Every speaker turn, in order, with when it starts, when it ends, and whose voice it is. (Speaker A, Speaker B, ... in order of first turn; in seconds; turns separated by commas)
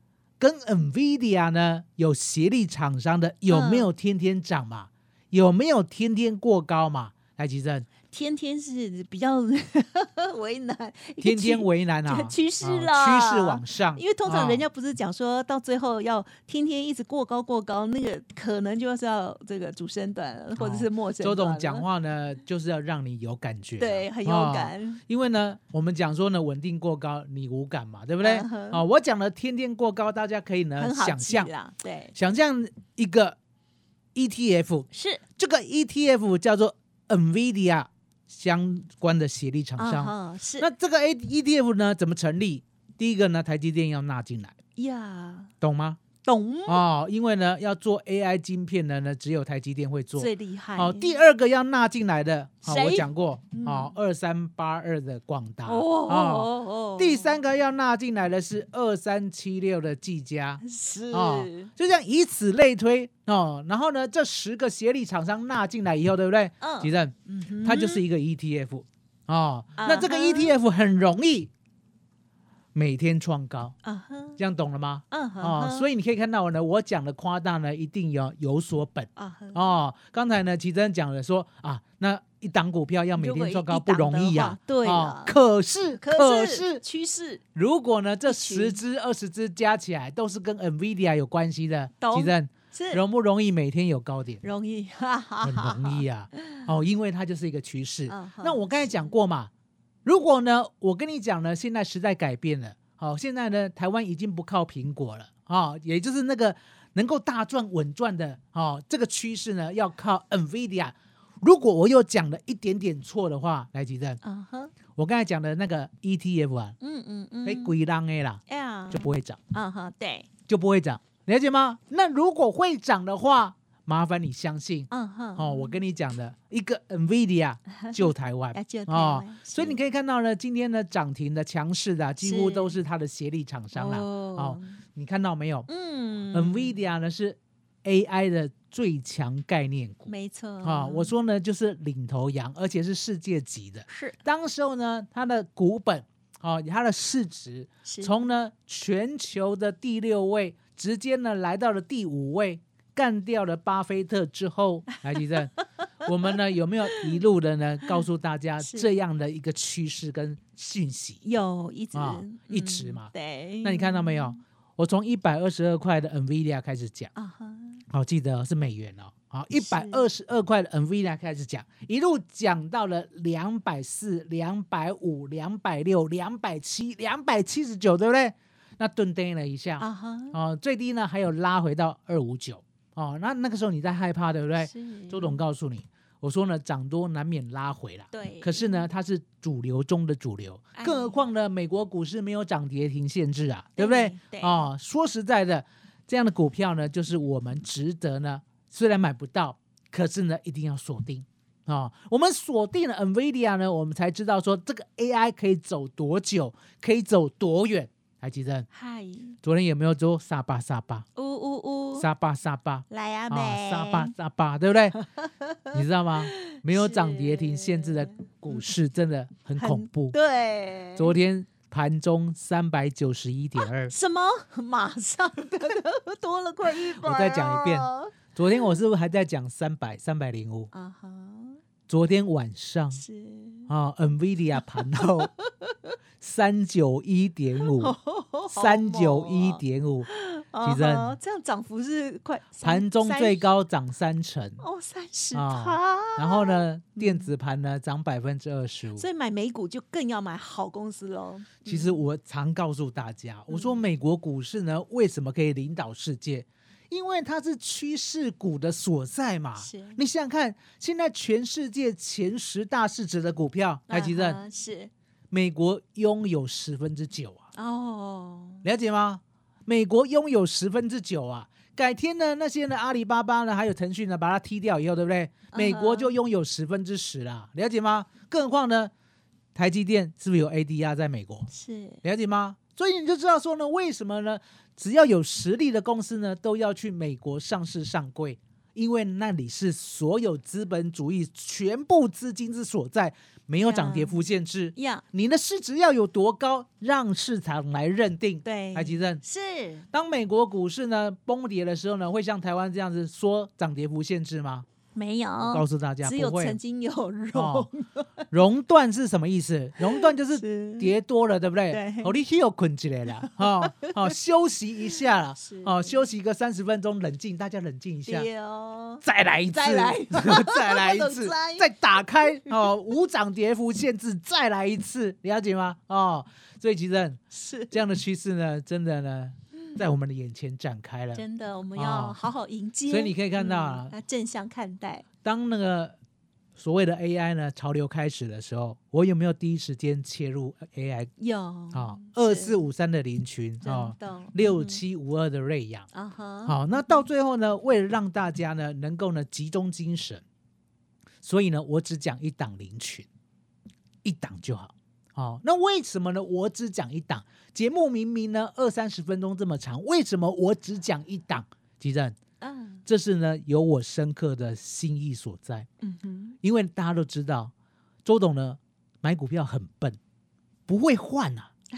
Speaker A: 0.4-7.9, Speaker B: 3.5-3.9, Speaker B: 8.1-21.9, Speaker A: 11.2-14.6, Speaker A: 20.6-31.5, Speaker B: 23.8-25.0, Speaker B: 28.2-28.8, Speaker B: 30.8-32.1, Speaker A: 32.1-33.4, Speaker A: 34.1-44.5, Speaker B: 34.9-35.2, Speaker B: 39.8-40.7, Speaker B: 44.8-45.5, Speaker A: 45.6-46.0, Speaker B: 46.2-46.8, Speaker A: 46.6-71.5, Speaker B: 50.1-51.2, Speaker B: 52.6-53.9, Speaker B: 55.6-57.4, Speaker B: 60.6-61.7, Speaker B: 66.6-68.0, Speaker B: 69.8-70.5, Speaker A: 72.7-73.7, Speaker B: 73.8-74.4, Speaker A: 74.4-86.8, Speaker B: 75.1-75.9, Speaker B: 79.2-79.7, Speaker B: 83.2-85.3, Speaker B: 86.0-87.4, Speaker A: 87.5-94.4, Speaker B: 88.3-88.8, Speaker B: 92.0-93.0, Speaker B: 94.4-96.6, Speaker A: 95.4-99.5, Speaker B: 98.1-99.1, Speaker A: 100.0-114.2, Speaker B: 114.2-114.7, Speaker A: 114.9-116.8, Speaker B: 116.8-117.7, Speaker A: 117.4-119.4, Speaker B: 118.5-120.3, Speaker A: 120.5-135.7, Speaker B: 124.9-125.8, Speaker B: 127.8-129.8, Speaker B: 132.2-132.8, Speaker B: 133.7-134.8, Speaker B: 135.7-136.8, Speaker A: 136.3-140.1, Speaker B: 140.1-141.1, Speaker A: 140.6-155.5, Speaker B: 143.9-144.2, Speaker B: 147.8-148.2, Speaker A: 156.0-161.2, Speaker B: 158.6-158.9, Speaker B: 161.2-164.4, Speaker A: 161.9-163.1, Speaker A: 163.6-167.1, Speaker B: 167.1-167.8, Speaker A: 167.9-208.7, Speaker B: 169.6-170.0, Speaker B: 179.8-180.4, Speaker B: 184.6-185.4, Speaker B: 188.1-188.8, Speaker B: 190.8-191.2, Speaker B: 193.8-194.7, Speaker B: 208.7-209.3, Speaker A: 209.4-211.1, Speaker B: 211.2-212.1, Speaker A: 211.9-214.9, Speaker B: 212.9-214.1, Speaker B: 214.9-218.6, Speaker A: 215.7-220.2, Speaker B: 219.6-221.1, Speaker A: 220.9-223.9, Speaker B: 223.6-228.1, Speaker A: 226.9-230.7, Speaker B: 230.7-231.6, Speaker A: 231.9-233.0, Speaker B: 232.9-233.7, Speaker A: 233.7-235.3, Speaker B: 234.9-235.9, Speaker A: 236.2-237.9, Speaker B: 237.6-243.5, Speaker A: 238.5-240.1, Speaker A: 240.6-241.2, Speaker A: 242.6-244.6, Speaker B: 244.6-247.3, Speaker A: 245.3-249.1, Speaker B: 248.9-252.0, Speaker A: 251.6-264.4, Speaker B: 253.5-253.8, Speaker B: 259.6-260.0, Speaker B: 263.9-264.9, Speaker A: 265.3-267.5, Speaker B: 267.5-268.6, Speaker A: 268.6-278.9, Speaker B: 275.5-276.1, Speaker A: 279.5-281.5, Speaker B: 281.5-282.0, Speaker A: 282.0-299.2, Speaker B: 293.6-294.2, Speaker B: 294.7-295.0, Speaker B: 298.4-299.9, Speaker A: 299.9-304.6, Speaker B: 304.9-308.2, Speaker A: 305.5-306.6, Speaker A: 307.3-307.7, Speaker A: 308.3-318.3, Speaker B: 309.8-310.9, Speaker B: 311.7-312.1, Speaker B: 313.6-314.1, Speaker B: 315.4-315.9, Speaker B: 318.1-322.6, Speaker A: 319.0-327.2, Speaker B: 327.3-327.8, Speaker A: 327.7-331.2, Speaker B: 329.5-329.8, Speaker B: 331.1-335.0, Speaker A: 331.7-332.2, Speaker A: 332.9-333.9, Speaker A: 335.2-335.9, Speaker A: 336.6-341.1, Speaker B: 341.2-342.6, Speaker A: 341.7-345.9, Speaker B: 343.6-344.8, Speaker B: 345.9-347.0, Speaker A: 346.4-350.2, Speaker A: 351.2-353.1, Speaker A: 354.0-362.1, Speaker B: 362.4-362.8, Speaker A: 362.9-365.7, Speaker B: 365.8-366.4, Speaker A: 366.4-367.5, Speaker A: 368.0-370.0, Speaker A: 370.7-371.5